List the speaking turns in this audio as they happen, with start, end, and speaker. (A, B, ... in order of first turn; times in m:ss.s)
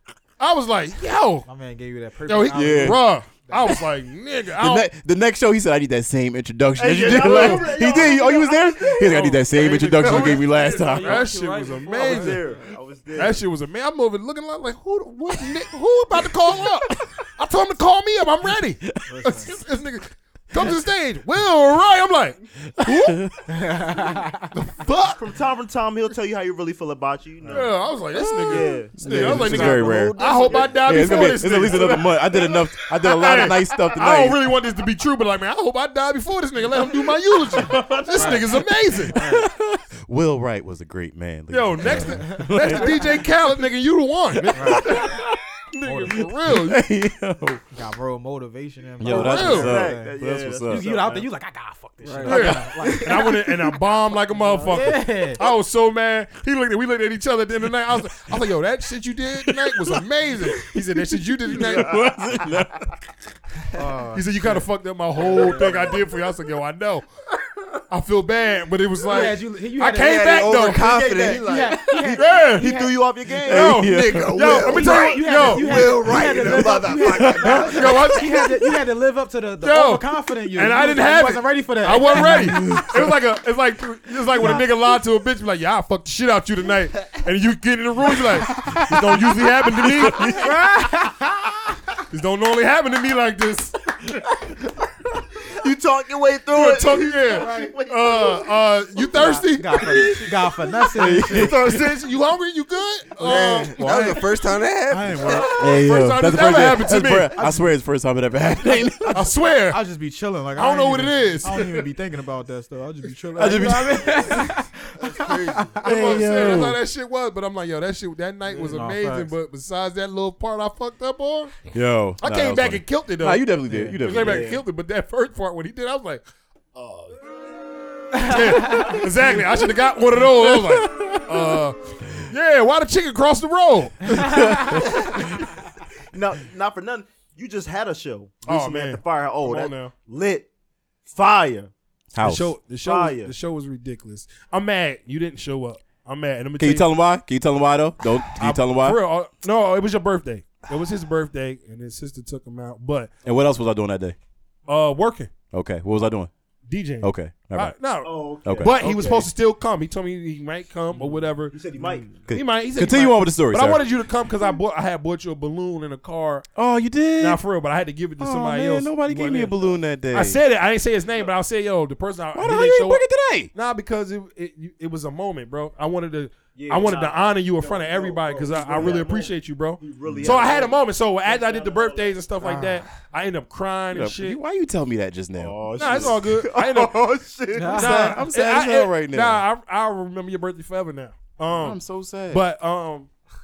0:00.4-0:01.5 A
0:01.4-0:03.7 B
0:02.3-0:04.9 A
0:02.5-0:03.0 C
0:04.6-0:11.3 C
0:06.8-0:13.4 D
0:07.2-0:07.8 A
0:09.0-0:23.2 A
0:11.1-0:12.4 B
0:12.0-0:12.7 E
0:15.3-0:15.6 C
0:16.2-0:17.1 C
0:19.1-0:19.5 B
0:22.8-0:23.4 C
0:23.5-0:24.5 B
0:24.6-0:25.2 A
0:24.8-0:27.7 D
0:27.5-0:39.2 A
0:28.1-0:30.2 C
0:28.4-0:31.7 D
0:30.8-0:34.4 C
0:38.1-0:38.5 B
0:39.0-0:43.1 C
0:39.1-0:39.5 B
0:41.5-0:46.8 A
0:42.0-0:42.5 B
0:44.3-0:45.4 C
0:44.5-0:45.1 B
0:45.8-0:46.3 B
0:46.4-0:47.6 C
0:47.7-0:53.3 B
0:49.0-0:50.9 C
0:49.1-0:49.8 A
0:49.1-0:51.3 D
0:52.0-0:53.5 E
0:52.2-1:02.0 A
0:54.6-0:55.4 B
0:59.4-1:03.0 C
1:03.7-1:04.6 B
1:04.1-1:07.0 A
1:05.3-1:05.9 E
1:07.9-1:11.2 A
1:09.1-1:10.4 B
1:09.9-1:12.0 E
1:10.8-1:11.4 D
1:11.2-1:13.0 B
1:12.0-1:12.7 A
1:12.6-1:13.8 D
1:13.4-1:14.8 C
1:13.5-1:16.8 A
1:13.8-1:17.9 E
1:14.7-1:22.8 B
1:17.0-1:18.5 C
1:17.5-1:18.3 A
1:19.6-1:30.4 A
1:22.2-1:23.1 C
1:24.4-1:24.7 B
1:28.6-1:28.8 C
1:29.7-1:30.5 C
1:30.2-1:31.8 B
1:32.1-1:34.2 A
1:35.4-1:39.4 D
1:36.5-1:40.3 A
1:37.4-1:37.7 B
1:39.2-1:41.6 B
1:41.0-1:41.9 C
1:41.3-1:44.3 A
1:43.2-1:45.6 E
1:44.9-1:45.6 B
1:45.2-1:47.4 A
1:45.6-1:49.2 C
1:47.4-1:47.7 B
1:49.1-1:55.9 B
1:49.1-1:49.8 A
1:50.5-1:51.9 A
1:53.4-1:54.4 C
1:55.0-1:55.8 E
1:55.8-2:01.6 A
1:55.8-1:56.8 C
1:58.5-1:59.3 B
2:01.7-2:04.6 C
2:02.2-2:06.2 A
2:03.7-2:04.0 B
2:04.2-2:04.6 D
2:06.8-2:07.1 D
2:08.1-2:08.9 B
2:08.2-2:15.2 A
2:10.3-2:11.6 C
2:14.2-2:15.4 C
2:16.1-2:20.5 D
2:18.4-2:19.9 A
2:21.0-2:21.7 D
2:22.1-2:22.5 C
2:22.2-2:26.9 A
2:22.8-2:23.3 D
2:26.6-2:29.0 C
2:28.3-2:33.1 A
2:33.2-2:34.2 C
2:34.7-2:35.3 A
2:35.5-2:36.3 C
2:36.7-2:46.4 A
2:37.0-2:37.8 C
2:38.0-2:39.3 D
2:38.4-2:38.8 C
2:41.5-2:42.2 D
2:42.3-2:43.8 C
2:46.6-2:47.4 C
2:47.2-3:04.4 A
2:48.2-2:50.4 C
2:52.3-2:53.5 C
2:56.5-3:02.1 D
3:02.4-3:02.8 B
3:03.9-3:06.2 C
3:05.3-3:07.8 D
3:05.7-3:07.0 A
3:07.5-3:08.2 B
3:07.7-3:13.1 A
3:07.7-3:09.4 C
3:11.5-3:12.4 C